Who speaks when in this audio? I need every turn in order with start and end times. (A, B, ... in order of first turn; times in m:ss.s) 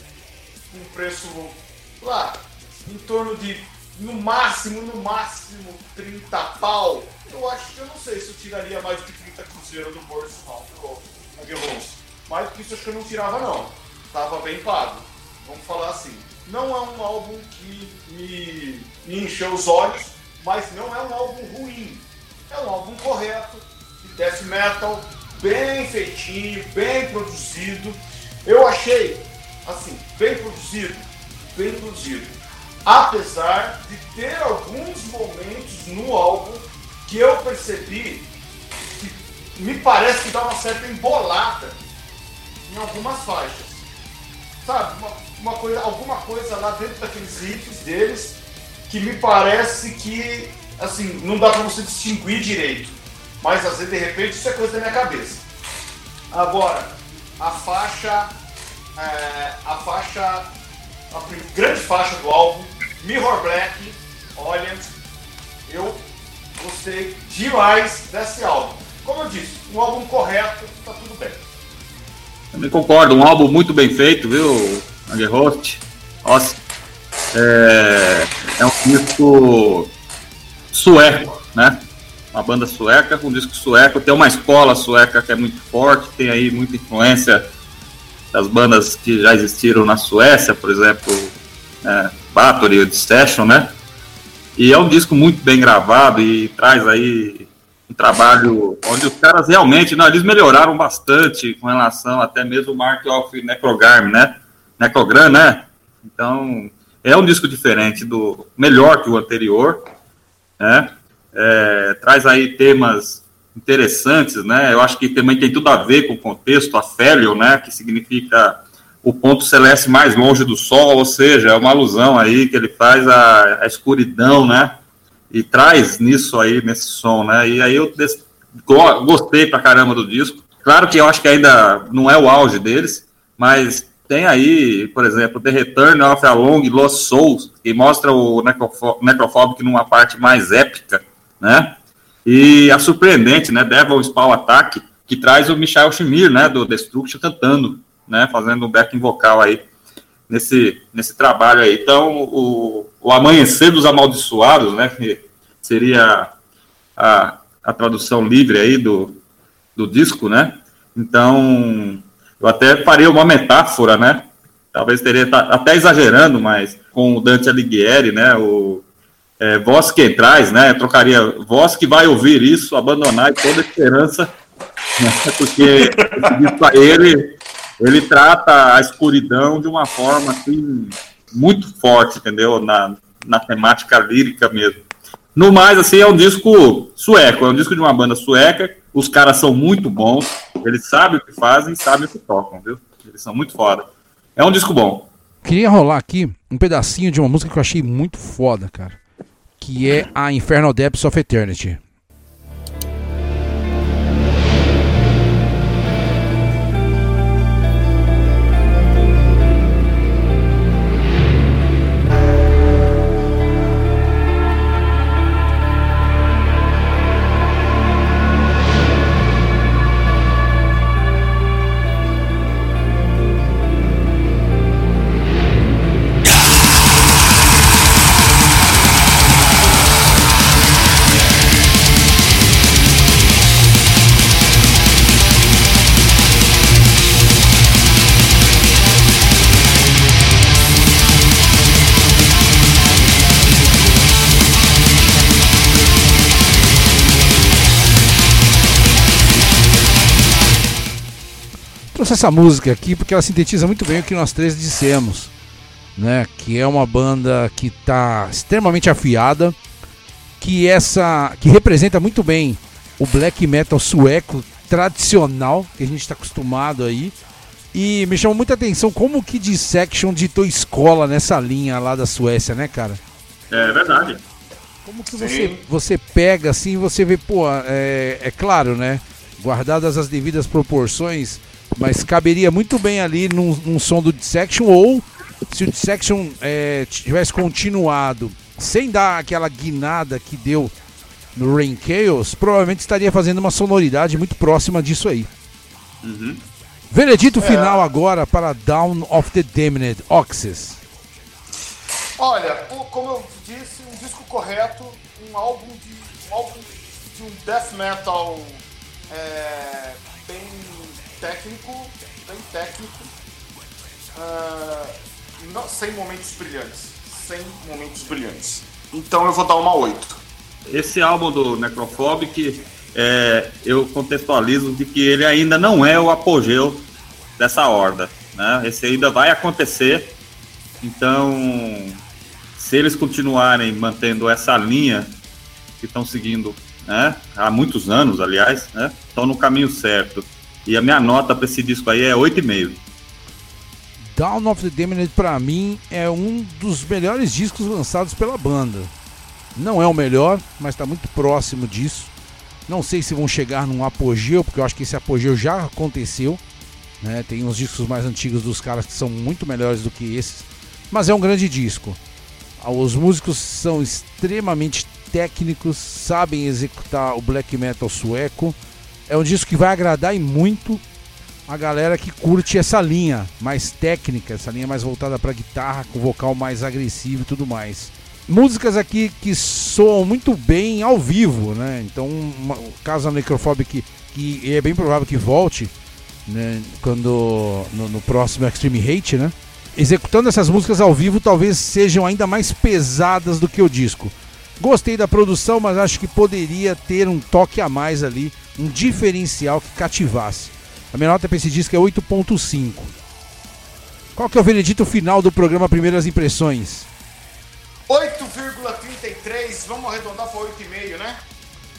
0:00.7-0:38.3 A
0:39.0-0:41.8 A
0:42.6-0:43.8 A
0:44.6-0:55.5 A
0:56.3-0:58.3 A
0:59.0-1:00.5 A
1:01.1-1:04.9 A
1:05.7-1:06.0 A
1:06.6-1:11.4 A
1:12.5-1:16.6 B
1:17.3-1:19.9 B
1:20.7-1:27.5 B
1:28.3-1:33.7 B
1:34.6-1:49.8 B
1:50.6-2:04.8 B
2:05.3-2:29.6 B
2:30.3-2:36.3 B
2:37.0-2:39.2 B
2:39.8-2:48.8 B
2:49.4-2:54.3 B
2:55.0-3:04.8 B
2:55.7-2:56.5 A
3:05.3-3:15.1 B
3:15.4-3:19.0 C
3:19.6-3:21.8 C
4:11.9-4:15.3 C
4:16.0-4:19.6 C
4:20.4-4:27.1 C
4:27.7-4:33.0 C
4:33.5-4:34.2 B
4:34.8-4:50.7 C
4:35.1-4:35.6 A
4:51.4-4:55.3 C
4:56.0-4:56.4 B
4:56.9-5:00.8 C
4:57.4-4:57.9 A
5:02.2-5:13.1 A
5:14.1-5:20.2 A
5:20.7-5:26.9 B
5:27.4-5:30.2 B
5:30.8-5:32.0 B
5:32.6-5:35.2 B
5:35.8-5:42.8 B
5:44.1-5:48.9 C
5:49.5-5:52.1 C
5:52.7-5:56.4 C
5:57.0-6:02.0 C
6:02.6-6:08.6 C
6:09.1-6:10.8 C
6:11.5-6:25.7 C
6:26.2-6:42.9 C
6:44.1-6:46.9 C
6:47.9-6:51.2 A